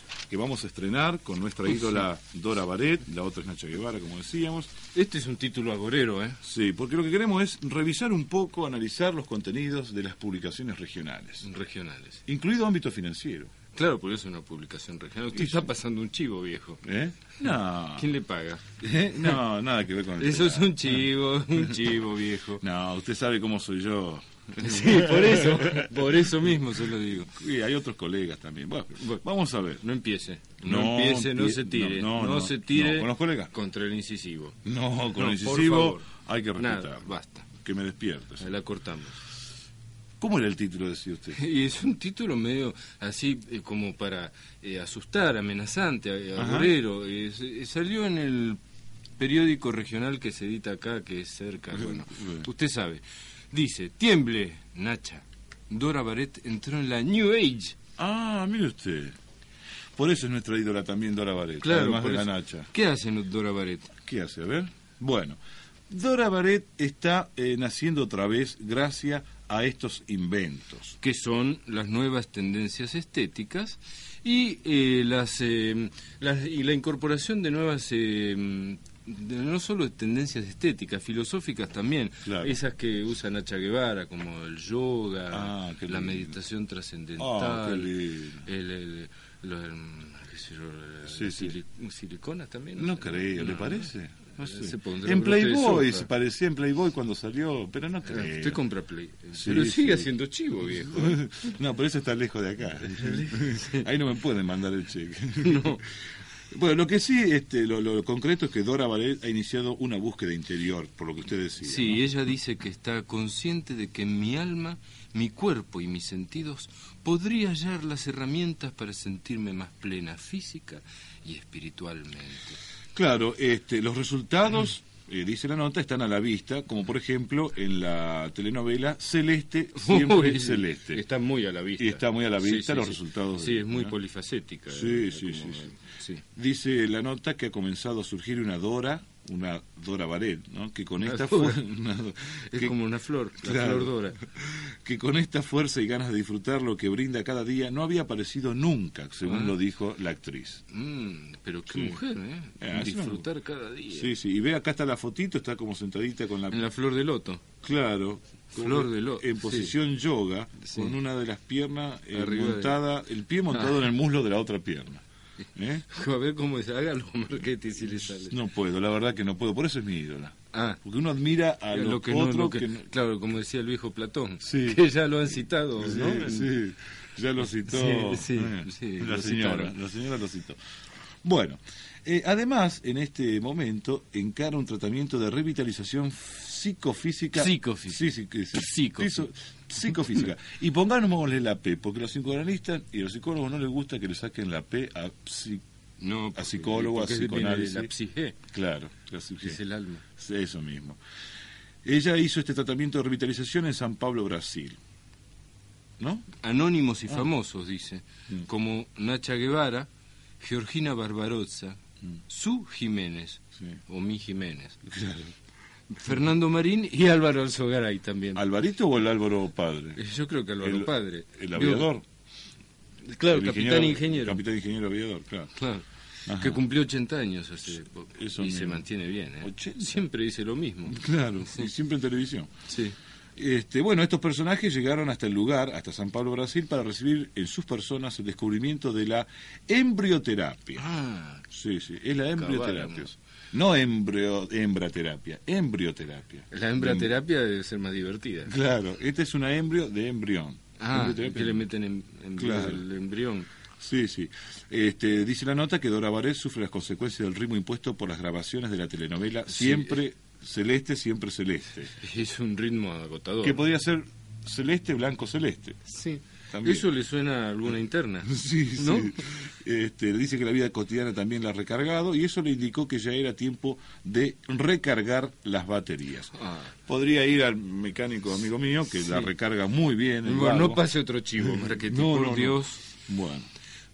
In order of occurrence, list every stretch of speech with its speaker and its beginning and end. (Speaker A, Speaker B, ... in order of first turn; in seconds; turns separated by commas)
Speaker A: 0.3-4.8, Speaker B: 4.9-6.4, Speaker A: 6.4-11.5, Speaker B: 11.4-12.2, Speaker A: 12.3-13.5, Speaker B: 13.8-16.8, Speaker A: 15.3-15.7, Speaker A: 16.8-18.1, Speaker B: 17.9-18.6, Speaker A: 18.8-21.0, Speaker B: 20.2-22.6, Speaker A: 22.6-26.2, Speaker B: 24.6-27.4, Speaker A: 27.3-29.8, Speaker B: 29.0-29.2, Speaker B: 29.8-34.6, Speaker A: 30.6-33.5, Speaker A: 34.6-38.6, Speaker B: 35.1-36.1, Speaker B: 36.6-37.5, Speaker B: 38.4-39.2, Speaker A: 40.2-41.4, Speaker B: 41.4-48.6, Speaker A: 46.4-46.8, Speaker B: 49.2-57.8, Speaker A: 51.7-52.5, Speaker A: 58.0-59.2, Speaker A: 60.0-62.7, Speaker B: 61.6-63.9, Speaker A: 64.0-71.0, Speaker B: 71.0-93.9, Speaker A: 82.2-82.6, Speaker A: 85.3-86.3, Speaker A: 87.2-88.5, Speaker A: 91.1-91.6, Speaker A: 92.8-98.6, Speaker B: 94.4-96.1, Speaker B: 98.1-101.2, Speaker A: 99.3-100.1, Speaker A: 100.7-105.8, Speaker B: 102.9-103.9, Speaker B: 105.4-105.8, Speaker A: 106.5-112.0, Speaker B: 111.6-122.6, Speaker A: 123.0-131.0, Speaker B: 129.8-136.2, Speaker A: 131.8-133.9, Speaker A: 134.7-135.7, Speaker A: 136.3-142.8, Speaker B: 141.0-141.6, Speaker B: 142.5-144.2, Speaker A: 143.4-150.6, Speaker B: 149.2-149.6, Speaker B: 150.7-154.1, Speaker A: 151.7-152.0, Speaker A: 152.6-153.3, Speaker A: 153.9-156.6, Speaker B: 156.5-157.4, Speaker A: 157.6-165.0, Speaker B: 158.5-159.8, Speaker B: 160.6-160.9, Speaker B: 162.1-162.8, Speaker B: 163.5-163.8, Speaker A: 165.6-165.8, Speaker B: 165.9-168.4, Speaker A: 168.2-172.9, Speaker B: 170.5-170.8, Speaker B: 171.7-176.5, Speaker A: 174.4-174.8, Speaker A: 175.8-180.6, Speaker B: 177.7-179.8, Speaker A: 181.2-195.6, Speaker B: 187.3-189.3, Speaker B: 196.0-198.4, Speaker A: 196.3-197.9, Speaker A: 198.5-199.6, Speaker B: 199.4-200.0, Speaker A: 200.2-201.0, Speaker A: 201.8-204.8, Speaker A: 206.0-206.3, Speaker B: 206.4-209.9, Speaker B: 210.4-214.8, Speaker A: 214.8-215.3, Speaker B: 215.9-218.4, Speaker A: 218.3-220.0, Speaker B: 220.0-221.9, Speaker A: 220.6-222.1, Speaker B: 223.1-224.4, Speaker A: 223.2-225.5, Speaker B: 225.6-231.7, Speaker A: 226.3-226.6, Speaker A: 228.2-228.8, Speaker A: 229.4-230.1, Speaker A: 230.9-232.5, Speaker B: 232.7-233.0, Speaker A: 233.4-240.8, Speaker B: 240.8-241.4, Speaker A: 241.5-247.1, Speaker B: 242.4-243.1, Speaker B: 246.5-248.6, Speaker A: 248.5-251.7, Speaker B: 250.8-253.5, Speaker A: 252.4-252.8, Speaker A: 253.8-261.9, Speaker B: 259.5-260.0, Speaker B: 262.0-263.6, Speaker A: 263.4-265.8, Speaker B: 265.9-269.2, Speaker A: 266.5-266.9, Speaker A: 268.2-276.3, Speaker B: 276.4-276.7, Speaker A: 276.9-280.8, Speaker B: 279.0-279.3, Speaker B: 280.2-282.9, Speaker A: 281.4-283.5